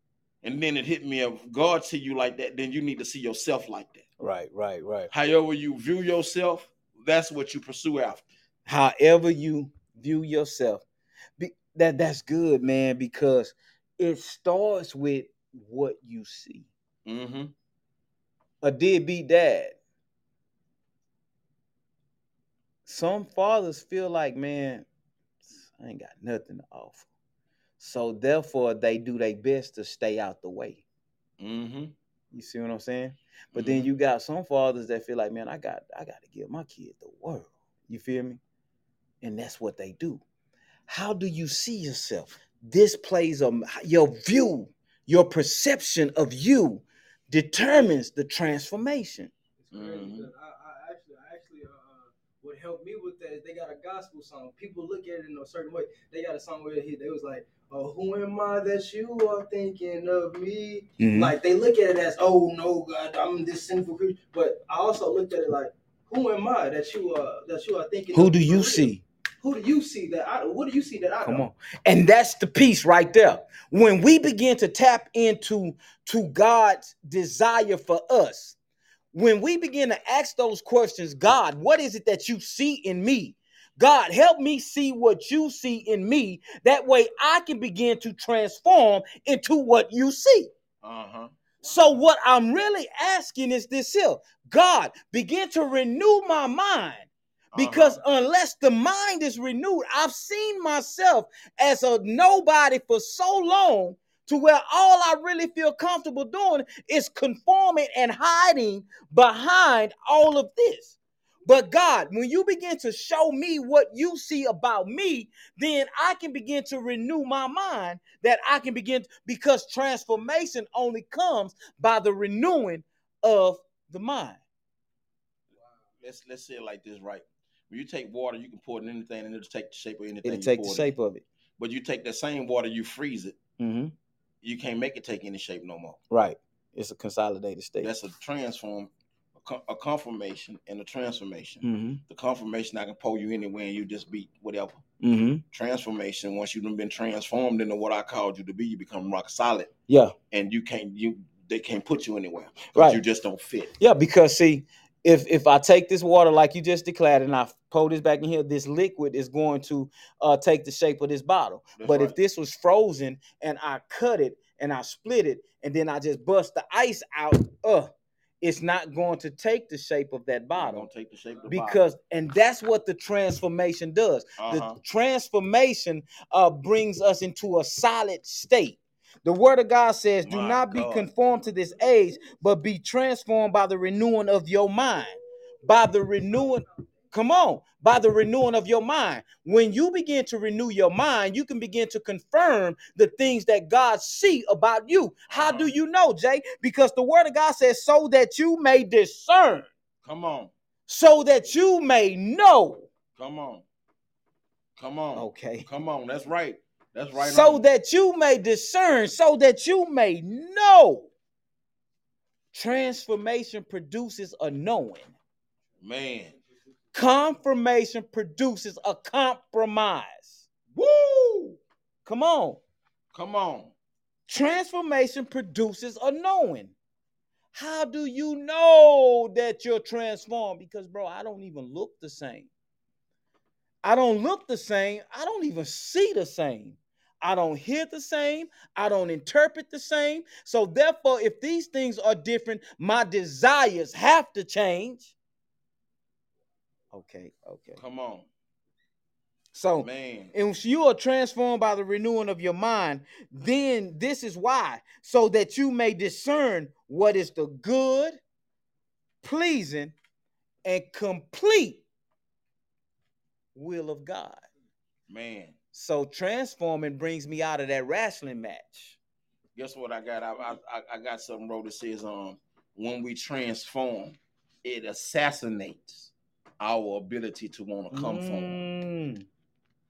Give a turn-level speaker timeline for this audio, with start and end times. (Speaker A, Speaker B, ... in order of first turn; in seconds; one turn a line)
Speaker A: 0.4-4.0
Speaker B: 4.2-5.1
Speaker A: 5.1-8.3
Speaker B: 8.7-10.8
Speaker B: 11.4-16.7
Speaker A: 17.1-17.5
Speaker B: 18.6-19.8
Speaker B: 22.9-24.8
Speaker B: 25.6-27.1
Speaker B: 27.8-30.8
Speaker A: 31.4-31.9
Speaker B: 32.3-38.4
Speaker A: 33.5-33.9
Speaker B: 39.2-40.2
Speaker B: 40.9-49.3
Speaker C: 49.6-71.5
Speaker A: 49.7-50.3
Speaker B: 61.0-61.3
Speaker B: 68.1-69.0
Speaker B: 71.2-78.5
Speaker B: 79.1-90.5
Speaker A: 90.8-91.3
Speaker B: 91.6-124.4
Speaker A: 97.5-98.0
Speaker A: 126.0-130.9
Speaker B: 130.2-131.2
Speaker A: 131.6-133.4
Speaker B: 133.6-133.9
Speaker A: 134.4-136.0
Speaker B: 136.1-137.9
Speaker A: 137.8-144.8
Speaker B: 141.6-142.0
Speaker B: 145.0-145.4
Speaker A: 145.5-149.7
Speaker B: 149.9-150.1
Speaker A: 150.3-153.7
Speaker B: 152.7-153.0
Speaker B: 153.8-170.9
Speaker A: 161.8-162.1
Speaker A: 170.6-171.8
Speaker B: 171.5-199.7
Speaker A: 174.4-174.8
Speaker A: 180.2-181.1
Speaker A: 195.3-195.7
Speaker A: 200.0-200.5
Speaker B: 200.9-202.9
Speaker A: 203.2-203.6
Speaker A: 204.8-207.6
Speaker B: 205.1-205.7
Speaker B: 207.2-211.1
Speaker B: 212.5-215.1
Speaker A: 215.8-216.3
Speaker B: 216.9-220.5
Speaker A: 220.7-221.6
Speaker B: 222.1-222.6
Speaker A: 223.1-223.7
Speaker B: 224.3-226.7
Speaker B: 227.5-232.5
Speaker B: 233.8-245.1
Speaker B: 246.9-247.8
Speaker A: 247.8-248.3
Speaker B: 249.5-258.2
Speaker A: 249.8-250.3
Speaker B: 259.2-259.9
Speaker B: 260.6-261.8
Speaker B: 263.6-264.4
Speaker A: 265.1-265.6
Speaker B: 265.7-269.0
Speaker A: 269.6-278.6
Speaker B: 277.9-279.2